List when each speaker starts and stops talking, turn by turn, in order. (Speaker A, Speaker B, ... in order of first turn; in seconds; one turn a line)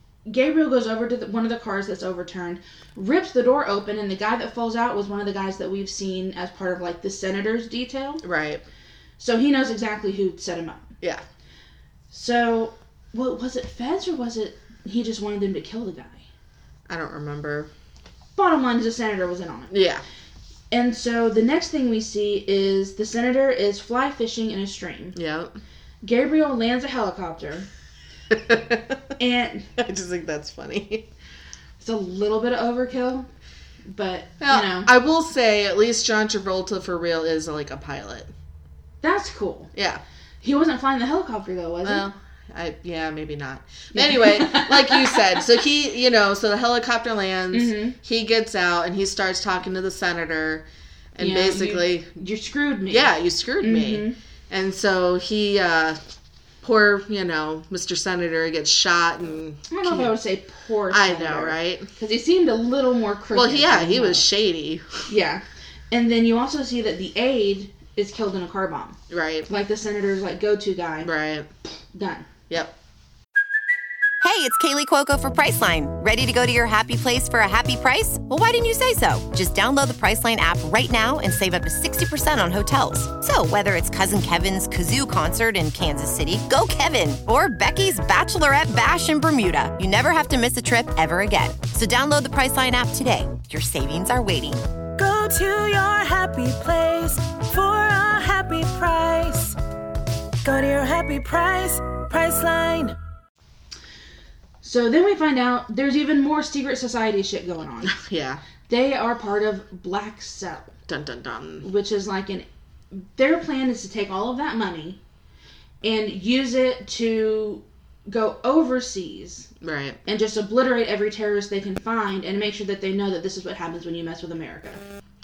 Speaker A: 0.2-8.2
Speaker B: 8.2-8.6
Speaker A: 9.2-10.9
Speaker A: 12.1-16.2
Speaker B: 16.9-17.7
Speaker A: 18.4-19.7
Speaker B: 19.7-20.0
Speaker A: 20.7-25.2
Speaker B: 25.1-25.6
Speaker A: 26.0-27.7
Speaker B: 28.3-29.0
Speaker A: 29.2-29.7
Speaker B: 29.8-31.1
Speaker A: 31.8-33.3
Speaker A: 33.9-34.9
Speaker B: 34.4-38.3
Speaker A: 39.0-39.7
Speaker B: 39.7-40.0
Speaker A: 40.4-42.1
Speaker B: 41.8-52.1
Speaker A: 43.9-45.4
Speaker A: 47.5-48.0
Speaker A: 51.2-54.2
Speaker B: 52.9-56.0
Speaker B: 56.6-60.1
Speaker A: 59.7-64.2
Speaker B: 60.9-61.9
Speaker B: 63.3-65.1
Speaker A: 65.1-71.1
Speaker B: 69.1-69.5
Speaker B: 71.0-71.5
Speaker A: 71.9-72.3
Speaker C: 74.2-94.6
Speaker D: 95.0-99.5
Speaker D: 100.5-102.9
Speaker A: 104.6-107.9
Speaker B: 107.8-108.4
Speaker A: 108.7-110.7
Speaker B: 110.9-111.7
Speaker A: 111.6-115.0
Speaker A: 115.8-119.5
Speaker B: 119.6-120.0
Speaker A: 120.1-124.8